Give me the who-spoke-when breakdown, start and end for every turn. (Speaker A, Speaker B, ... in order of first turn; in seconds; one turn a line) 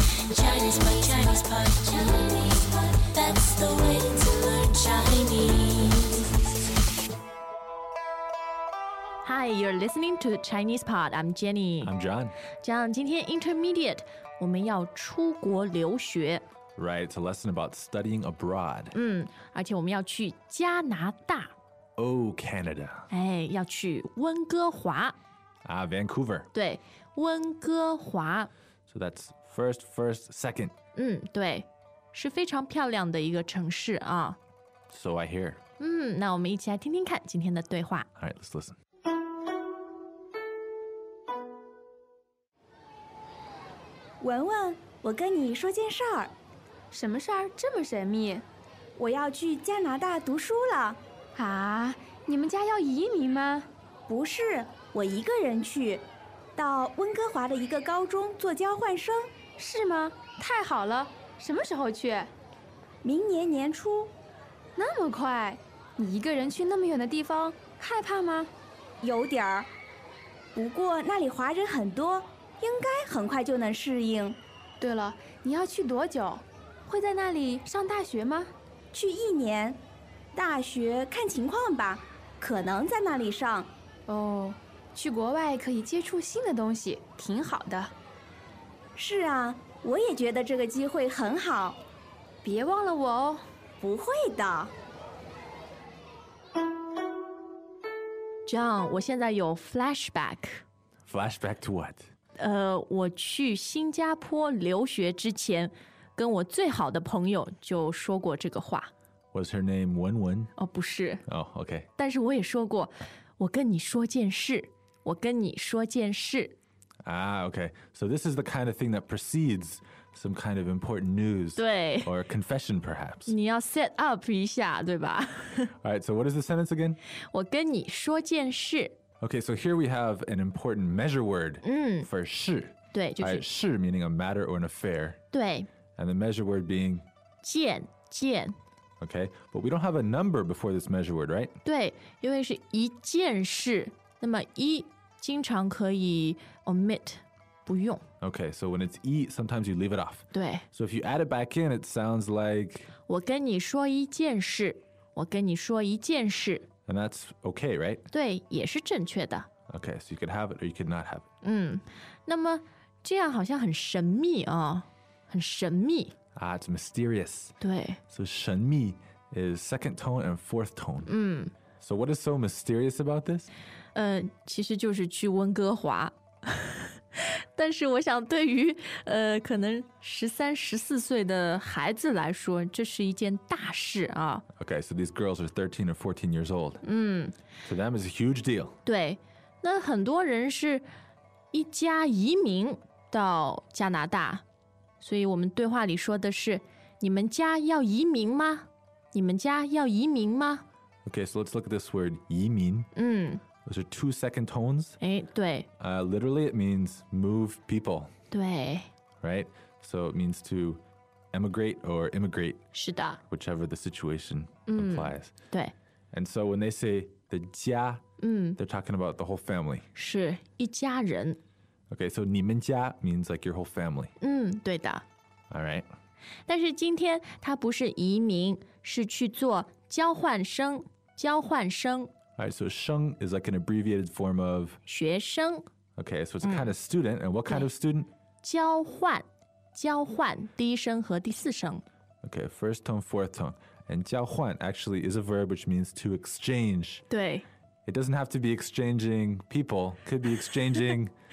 Speaker A: 0.3-6.2
Speaker B: 9.2-11.9
Speaker C: 11.8-12.4
Speaker B: 12.6-16.4
Speaker C: 16.8-18.9
Speaker B: 18.9-21.5
Speaker C: 22.0-23.1
Speaker B: 23.1-25.2
Speaker C: 25.6-26.5
Speaker B: 26.5-28.5
Speaker C: 28.9-30.7
Speaker B: 30.9-34.4
Speaker C: 34.9-35.6
Speaker B: 35.8-38.1
Speaker C: 38.2-38.8
Speaker D: 44.2-46.3
Speaker E: 46.9-48.5
Speaker D: 49.0-51.0
Speaker E: 51.4-53.7
Speaker D: 54.1-59.3
Speaker E: 59.6-62.3
Speaker D: 63.0-64.1
Speaker E: 64.8-68.5
Speaker D: 69.0-69.7
Speaker D: 70.5-74.4
Speaker E: 74.8-78.5
Speaker D: 78.9-79.8
Speaker D: 80.3-83.7
Speaker E: 84.1-87.9
Speaker D: 89.0-91.8
Speaker E: 92.4-93.4
Speaker D: 93.8-94.7
Speaker B: 98.5-100.6
Speaker C: 101.1-102.1
Speaker B: 102.4-108.9
Speaker C: 109.3-110.5
Speaker B: 110.6-111.2
Speaker C: 111.3-111.9
Speaker B: 112.0-116.6
Speaker C: 117.0-123.3
Speaker B: 121.6-122.1
Speaker B: 123.3-125.7
Speaker C: 125.8-127.0
Speaker B: 127.3-129.0
Speaker C: 129.2-135.2
Speaker B: 131.6-132.1
Speaker B: 132.9-133.5
Speaker B: 135.3-135.7
Speaker C: 136.0-137.1
Speaker B: 137.4-138.6
Speaker C: 139.0-141.6
Speaker B: 141.6-148.0
Speaker C: 148.2-152.9
Speaker B: 150.3-150.7
Speaker B: 153.1-156.7
Speaker C: 156.9-158.1
Speaker B: 158.1-159.5
Speaker C: 159.7-161.2
Speaker B: 161.4-166.2
Speaker C: 166.4-167.6
Speaker B: 167.6-168.0
Speaker C: 168.1-171.1
Speaker B: 171.1-171.5
Speaker C: 171.8-173.5
Speaker B: 173.9-184.5
Speaker C: 184.6-186.8
Speaker B: 186.8-187.3
Speaker C: 187.7-188.8
Speaker B: 188.8-190.9
Speaker B: 191.5-194.4
Speaker B: 195.0-200.7
Speaker C: 201.1-202.9
Speaker B: 202.9-203.4
Speaker C: 203.7-205.0
Speaker B: 205.0-205.7
Speaker C: 205.8-208.1
Speaker B: 208.3-208.9
Speaker C: 209.2-210.8
Speaker C: 211.3-212.6
Speaker B: 212.7-213.2
Speaker C: 213.3-215.3
Speaker B: 214.7-215.7
Speaker C: 216.1-218.0
Speaker B: 218.2-218.6
Speaker C: 218.6-219.9
Speaker B: 219.9-221.4
Speaker C: 221.9-224.1
Speaker B: 224.2-225.0
Speaker C: 225.5-225.9
Speaker B: 226.5-232.1
Speaker C: 232.4-234.8
Speaker B: 234.9-235.7
Speaker C: 236.0-238.1
Speaker B: 236.4-236.7
Speaker B: 238.4-241.8
Speaker C: 242.2-247.0
Speaker B: 247.1-247.5
Speaker C: 247.9-251.1